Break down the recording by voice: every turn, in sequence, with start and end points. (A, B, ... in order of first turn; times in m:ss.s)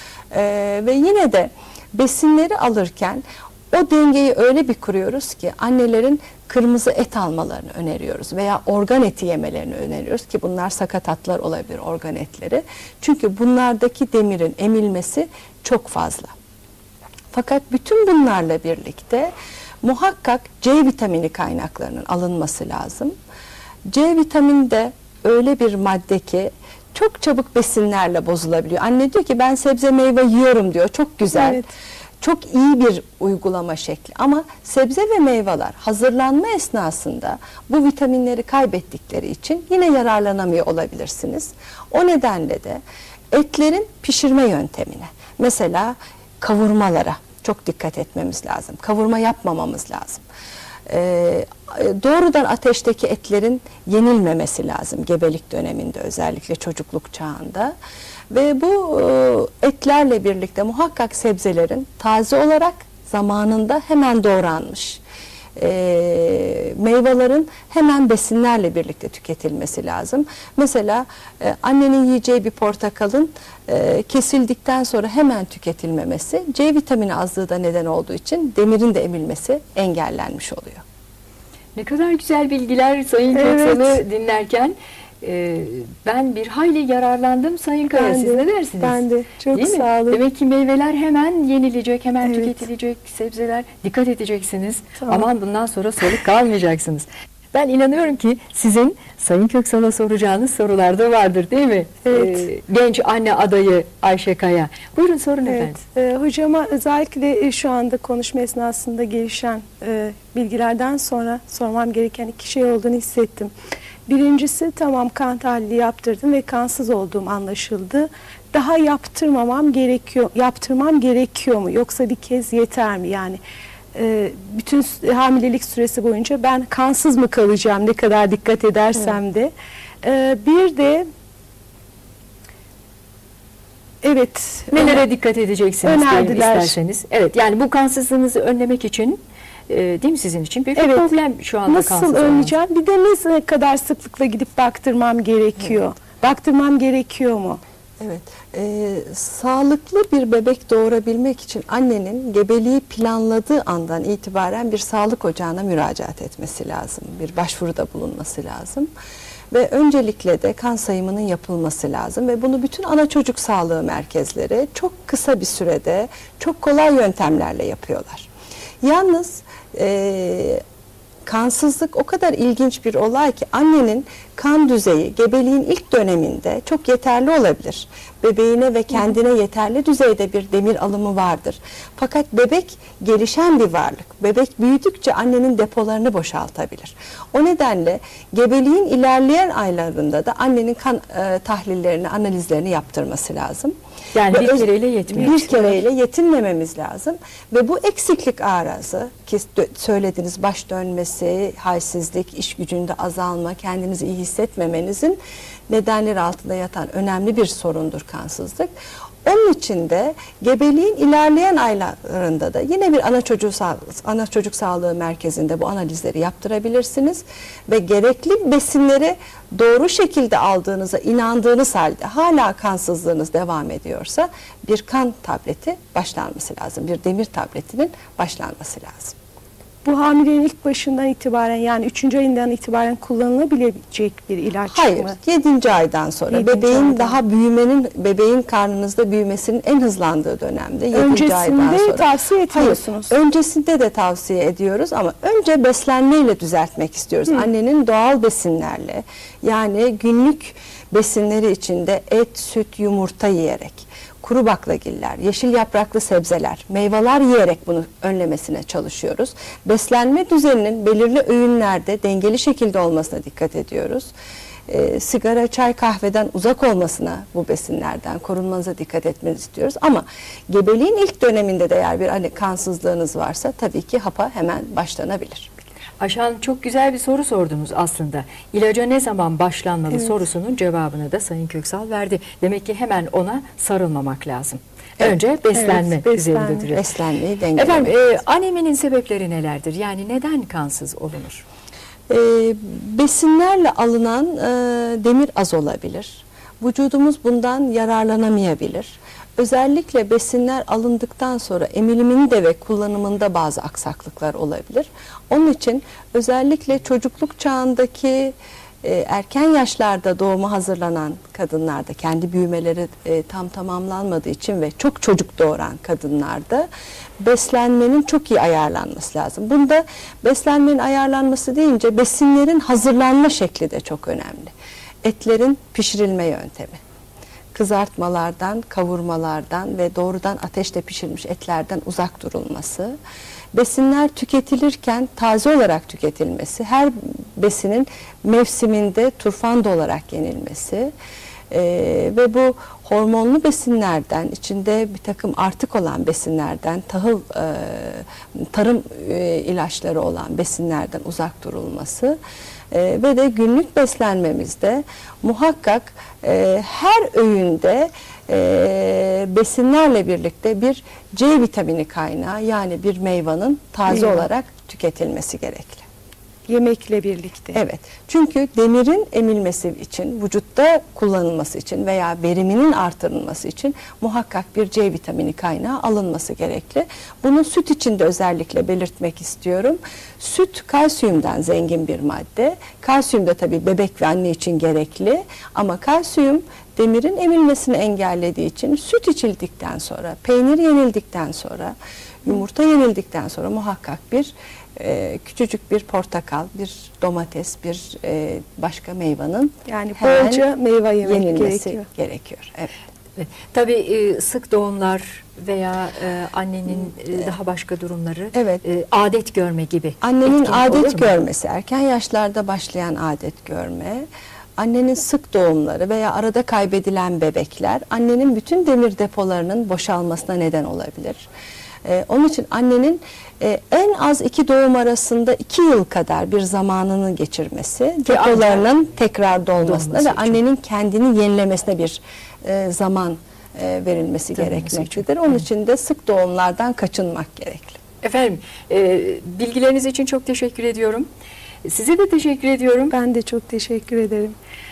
0:00.3-0:16.3 A
0:17.3-0:23.1 A
0:23.8-0:31.7 A
0:31.3-0:31.7 B
0:32.2-0:42.8 A
0:43.3-0:50.2 A
0:50.9-0:57.7 A
0:58.3-1:05.0 A
1:05.6-1:20.8 A
1:21.7-1:45.8 C
1:23.3-1:24.0 B
1:27.9-1:30.2 B
1:32.2-1:32.6 B
1:35.0-1:35.2 B
1:42.1-1:42.5 B
1:45.5-1:53.5 B
1:54.1-2:03.4 B
2:03.9-2:09.5 B
2:10.0-2:11.0 B
2:14.0-2:15.0 B
2:14.7-2:22.5 C
2:15.8-2:16.7 B
2:20.7-2:27.6 B
2:28.0-2:38.9 A
2:39.5-2:48.3 A
2:48.8-2:50.6 A
2:51.2-3:13.7 A
3:14.1-3:15.8 C
3:14.3-3:25.2 A
3:25.7-3:28.7 A
3:29.2-3:49.1 A
3:49.8-3:55.2 B
3:54.7-4:24.1 A
3:56.3-3:57.2 B
4:00.9-4:03.1 B
4:24.7-4:35.5 A
4:36.0-4:46.8 C
4:45.5-4:46.7 B
4:46.7-4:47.9 A
4:47.6-4:51.4 C
4:52.1-5:16.7 A
5:17.2-5:24.5 A
5:25.0-5:26.8 A
5:27.5-5:33.0 A
5:33.5-5:40.9 A
5:41.5-5:52.2 A
5:52.7-6:05.8 A
6:03.9-6:04.2 B
6:06.5-6:07.6 B
6:07.5-6:40.4 A
6:39.7-6:41.8 B
6:41.0-6:42.7 A
6:43.2-6:51.1 C
6:48.3-6:48.6 A
6:50.0-6:54.0 A
6:54.6-7:01.2 A
7:01.8-7:17.8 A
7:08.0-7:08.7 C
7:09.6-7:10.4 C
7:14.3-7:15.4 C
7:18.0-7:21.1 C
7:21.6-7:22.9 C
7:22.9-7:24.3 B